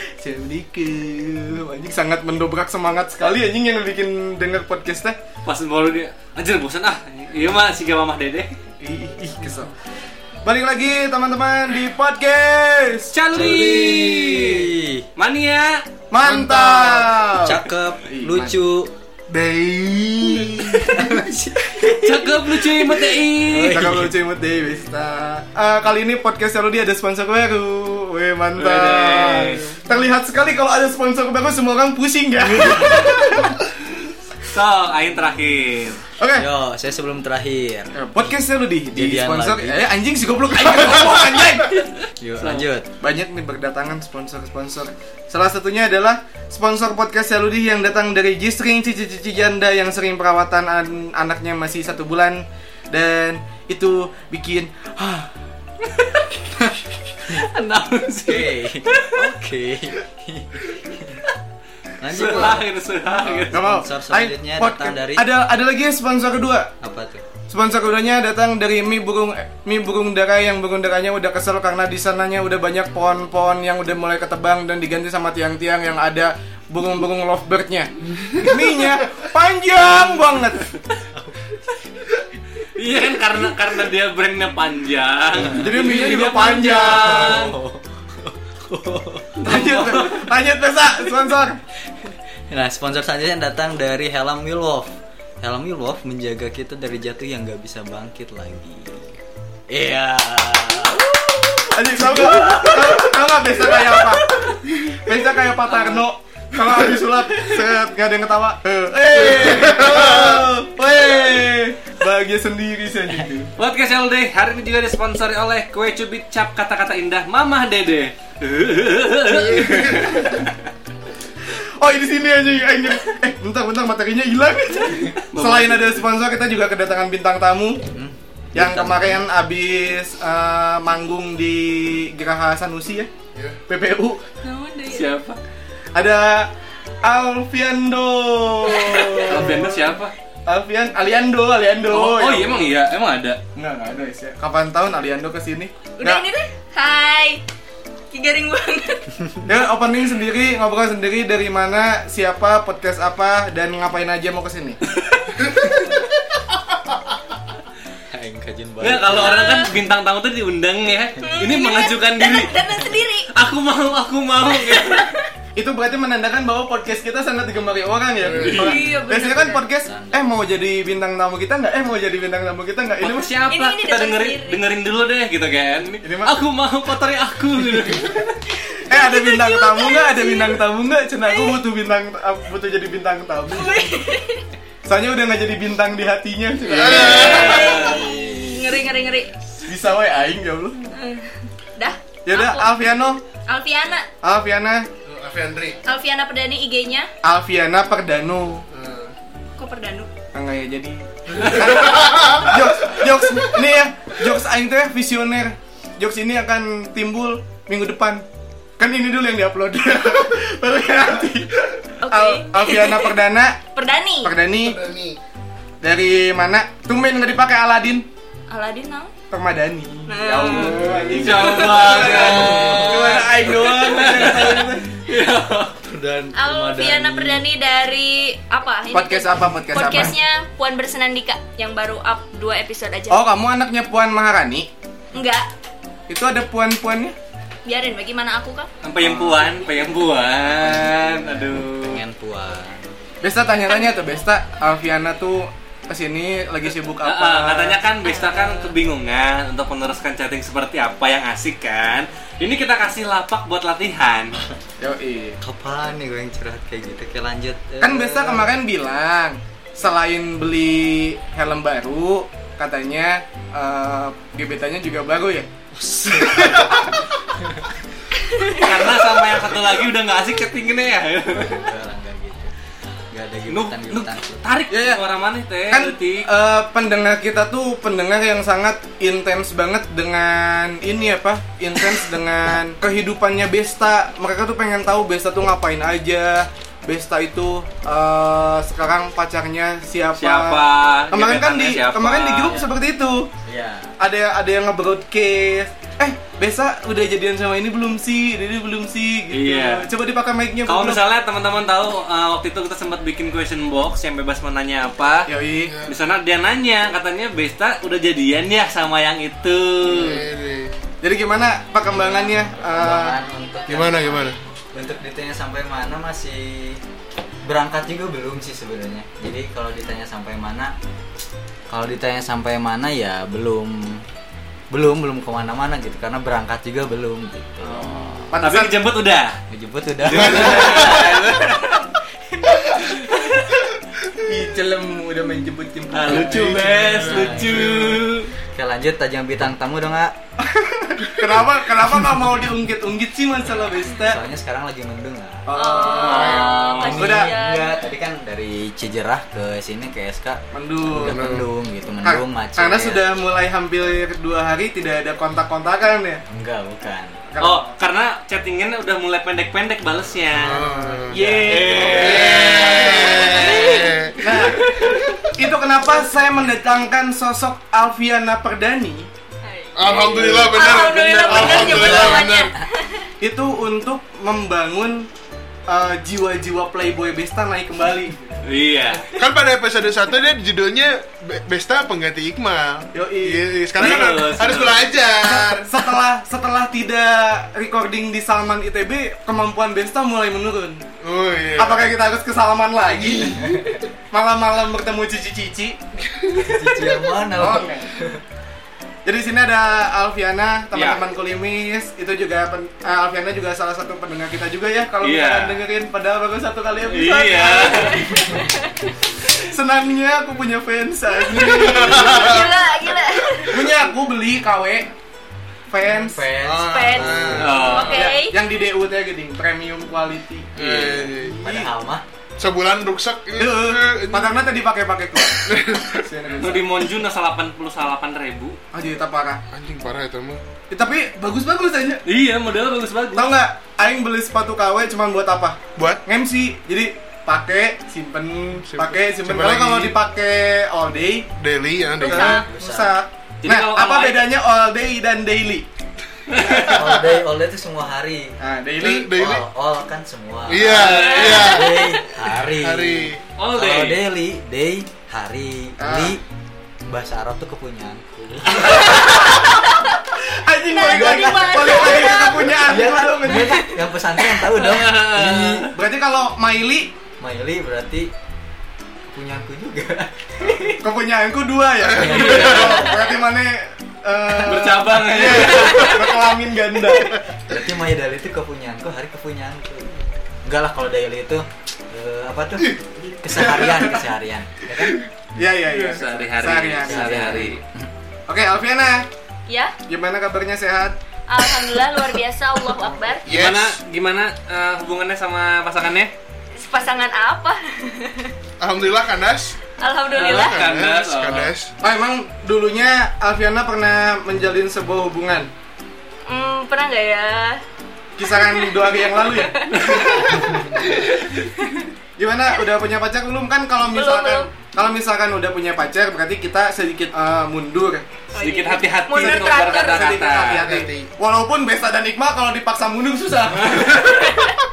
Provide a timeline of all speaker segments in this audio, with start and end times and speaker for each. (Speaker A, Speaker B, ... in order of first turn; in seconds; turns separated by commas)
Speaker A: 0.2-5.2, Speaker B: 5.4-8.5, Speaker A: 8.8-9.7, Speaker A: 10.4-13.2, Speaker B: 13.1-15.8, Speaker C: 13.3-15.1, Speaker D: 13.3-13.8, Speaker A: 16.1-18.5, Speaker D: 16.2-17.1, Speaker C: 17.4-18.9, Speaker D: 19.3-21.1, Speaker C: 20.7-24.1, Speaker B: 22.0-23.9, Speaker A: 23.7-33.5, Speaker B: 28.6-29.7, Speaker C: 32.7-33.3, Speaker B: 34.5-36.0, Speaker A: 36.2-36.5, Speaker C: 36.3-37.9, Speaker A: 37.9-41.7, Speaker C: 38.9-40.0, Speaker C: 42.2-42.9, Speaker B: 42.4-42.7, Speaker A: 43.0-55.3, Speaker B: 57.2-59.2, Speaker C: 58.2-61.2, Speaker C: 62.0-62.7, Speaker B: 62.0-63.6, Speaker C: 63.2-65.2, Speaker A: 63.4-66.7, Speaker C: 66.8-67.2, Speaker A: 67.5-80.7, Speaker C: 81.2-81.5, Speaker B: 82.8-87.5, Speaker A: 85.5-87.4, Speaker C: 87.2-89.5, Speaker B: 89.4-90.2, Speaker A: 89.4-91.6, Speaker C: 92.5-101.7, Speaker A: 101.7-104.4, Speaker A: 104.9-113.5, Speaker D: 109.2-110.5, Speaker B: 113.6-120.6, Speaker D: 119.6-120.1, Speaker A: 121.5-127.8, Speaker B: 125.3-126.0, Speaker C: 127.9-129.2, Speaker A: 128.5-133.1, Speaker D: 133.3-133.6, Speaker A: 133.7-134.2, Speaker E: 134.4-135.1, Speaker B: 134.9-135.4, Speaker A: 135.9-136.5, Speaker A: 137.0-139.7, Speaker E: 138.7-139.2, Speaker B: 139.2-140.1, Speaker A: 140.4-142.7, Speaker B: 141.8-143.4, Speaker A: 143.6-146.2, Speaker E: 146.0-147.4, Speaker E: 148.1-149.1, Speaker A: 149.4-154.8, Speaker B: 154.9-155.4, Speaker C: 158.1-159.3, Speaker B: 158.8-162.6, Speaker E: 159.2-159.7, Speaker E: 161.2-163.3, Speaker B: 163.3-165.1, Speaker E: 164.6-165.3, Speaker A: 165.6-173.3, Speaker D: 168.2-168.8, Speaker B: 168.4-168.8, Speaker E: 168.5-169.6, Speaker C: 169.8-170.2, Speaker B: 173.0-178.4, Speaker E: 173.5-174.6, Speaker A: 176.0-176.4, Speaker E: 178.5-180.6, Speaker A: 178.9-184.0, Speaker E: 181.3-181.6, Speaker E: 183.5-184.5, Speaker A: 184.8-187.8, Speaker D: 186.7-187.8, Speaker E: 186.8-189.3, Speaker B: 186.9-188.1, Speaker A: 189.6-190.8, Speaker E: 190.8-192.7, Speaker A: 192.2-193.2, Speaker E: 193.5-194.1, Speaker A: 194.2-194.9, Speaker D: 195.0-195.8, Speaker E: 195.8-197.1, Speaker A: 197.2-198.6, Speaker D: 198.7-199.1, Speaker E: 199.6-200.1, Speaker A: 200.3-208.2, Speaker D: 201.3-202.5, Speaker A: 208.8-213.6, Speaker E: 212.0-213.2, Speaker E: 213.7-214.3, Speaker A: 214.2-214.8, Speaker D: 214.6-215.2, Speaker A: 215.8-218.1, Speaker E: 218.5-219.1, Speaker A: 219.3-224.8, Speaker E: 220.1-220.9, Speaker B: 220.7-225.8, Speaker C: 220.8-221.2, Speaker D: 220.9-221.5, Speaker C: 222.3-223.1, Speaker C: 225.8-227.4, Speaker E: 226.3-233.2, Speaker A: 228.9-230.2, Speaker A: 233.1-234.7, Speaker E: 235.1-235.5, Speaker A: 236.1-237.1, Speaker E: 237.7-238.7, Speaker B: 238.8-242.0, Speaker A: 239.0-239.5, Speaker C: 240.4-242.9, Speaker A: 243.2-247.8, Speaker B: 247.0-254.3, Speaker E: 248.1-248.7, Speaker A: 254.8-255.4, Speaker C: 255.4-258.5, Speaker A: 257.8-265.5, Speaker C: 265.7-267.6, Speaker A: 266.3-266.7, Speaker D: 266.3-266.8, Speaker E: 268.2-268.6, Speaker B: 268.5-271.7, Speaker C: 271.4-274.4, Speaker B: 273.5-276.3, Speaker A: 274.7-275.0, Speaker A: 275.7-293.3, Speaker B: 290.2-292.7, Speaker C: 293.4-293.9, Speaker A: 294.0-301.0, Speaker B: 299.3-299.9, Speaker B: 300.6-305.3, Speaker A: 305.3-305.7, Speaker D: 305.6-305.9, Speaker B: 305.9-310.3, Speaker D: 309.8-310.8, Speaker A: 311.0-313.2, Speaker C: 311.9-316.8, Speaker D: 313.7-314.4, Speaker C: 317.4-320.7, Speaker C: 321.7-324.0, Speaker C: 324.7-328.3, Speaker A: 327.6-328.7, Speaker B: 328.4-329.4, Speaker C: 329.5-330.9, Speaker B: 330.0-331.9, Speaker D: 330.4-331.1, Speaker A: 334.2-337.1, Speaker B: 335.9-338.3, Speaker C: 336.9-338.0, Speaker D: 337.0-338.0, Speaker C: 338.5-340.1, Speaker A: 340.4-344.2, Speaker C: 343.8-345.6, Speaker A: 345.5-347.3, Speaker E: 345.5-347.8, Speaker B: 346.0-347.1, Speaker C: 346.1-353.0, Speaker A: 350.5-351.2, Speaker D: 351.0-351.5, Speaker A: 352.0-356.2, Speaker C: 356.3-357.1, Speaker A: 357.3-357.7, Speaker B: 357.4-360.7, Speaker D: 360.3-365.2, Speaker C: 360.7-361.4, Speaker A: 361.1-364.8, Speaker B: 361.4-363.4, Speaker E: 363.2-363.9, Speaker A: 365.3-369.1, Speaker E: 369.4-373.1, Speaker D: 369.8-372.5, Speaker A: 369.8-370.6, Speaker C: 371.3-372.3, Speaker A: 373.2-375.1, Speaker A: 375.7-378.4, Speaker B: 378.4-379.1, Speaker D: 379.0-385.7, Speaker A: 382.9-384.2, Speaker B: 383.8-384.9, Speaker A: 385.2-390.9, Speaker D: 391.0-391.8, Speaker A: 391.6-395.8, Speaker D: 396.2-396.8, Speaker C: 396.3-398.2, Speaker A: 397.3-397.9, Speaker A: 399.0-408.2, Speaker B: 400.7-401.0, Speaker B: 405.0-405.6, Speaker B: 406.8-408.1, Speaker E: 407.7-408.9, Speaker A: 409.4-412.4, Speaker E: 411.2-413.7, Speaker D: 411.3-412.5, Speaker A: 413.5-414.9, Speaker A: 415.7-416.3, Speaker C: 415.8-417.6, Speaker D: 416.4-418.1, Speaker E: 416.7-418.4, Speaker B: 417.4-418.0, Speaker A: 417.5-421.7, Speaker D: 420.6-421.4, Speaker C: 421.1-422.0, Speaker D: 422.4-424.3, Speaker A: 423.4-426.7, Speaker D: 425.5-426.0, Speaker B: 426.4-428.6, Speaker A: 428.7-429.4, Speaker D: 429.5-430.4, Speaker A: 430.7-432.0, Speaker B: 432.0-433.3, Speaker A: 433.1-441.3, Speaker D: 435.8-436.0, Speaker D: 438.7-439.9, Speaker D: 441.4-442.4, Speaker A: 442.0-445.6, Speaker E: 442.0-442.4, Speaker C: 442.1-442.9, Speaker B: 443.4-444.2, Speaker B: 446.3-446.8, Speaker D: 446.5-447.1, Speaker C: 446.7-448.4, Speaker A: 448.4-449.1, Speaker D: 448.8-449.4, Speaker C: 449.1-456.2, Speaker D: 450.5-453.2, Speaker B: 450.7-451.4, Speaker E: 450.8-451.8, Speaker B: 453.4-454.0, Speaker A: 455.8-456.2, Speaker C: 456.9-459.0, Speaker A: 458.5-459.5, Speaker E: 458.7-459.8, Speaker A: 460.1-463.7, Speaker E: 460.7-462.6, Speaker C: 460.8-465.7, Speaker B: 464.5-465.7, Speaker A: 465.7-466.9, Speaker C: 467.2-468.1, Speaker C: 469.1-470.7, Speaker A: 470.8-477.2, Speaker C: 471.9-472.7, Speaker D: 471.9-472.8, Speaker B: 472.0-472.8, Speaker B: 474.3-476.0, Speaker E: 475.7-476.0, Speaker C: 477.5-485.0, Speaker A: 483.3-484.0, Speaker A: 485.4-487.4, Speaker B: 485.9-487.6, Speaker C: 486.9-487.9, Speaker A: 488.3-489.1, Speaker E: 489.5-489.7, Speaker A: 489.9-491.0, Speaker E: 491.3-493.2, Speaker D: 493.2-493.8, Speaker B: 493.2-496.1, Speaker E: 496.5-498.3, Speaker D: 498.6-499.6, Speaker E: 499.8-500.6, Speaker B: 500.1-501.5, Speaker D: 500.1-501.7, Speaker A: 501.8-505.5, Speaker E: 506.3-507.6, Speaker A: 508.2-509.7, Speaker E: 508.4-508.7, Speaker E: 509.3-510.0, Speaker B: 509.7-510.2, Speaker D: 510.8-511.1, Speaker E: 511.3-511.9, Speaker A: 512.2-518.1, Speaker E: 513.9-514.5, Speaker E: 518.3-520.1, Speaker B: 518.3-520.7, Speaker A: 519.1-524.3, Speaker D: 520.5-521.0, Speaker B: 523.6-524.0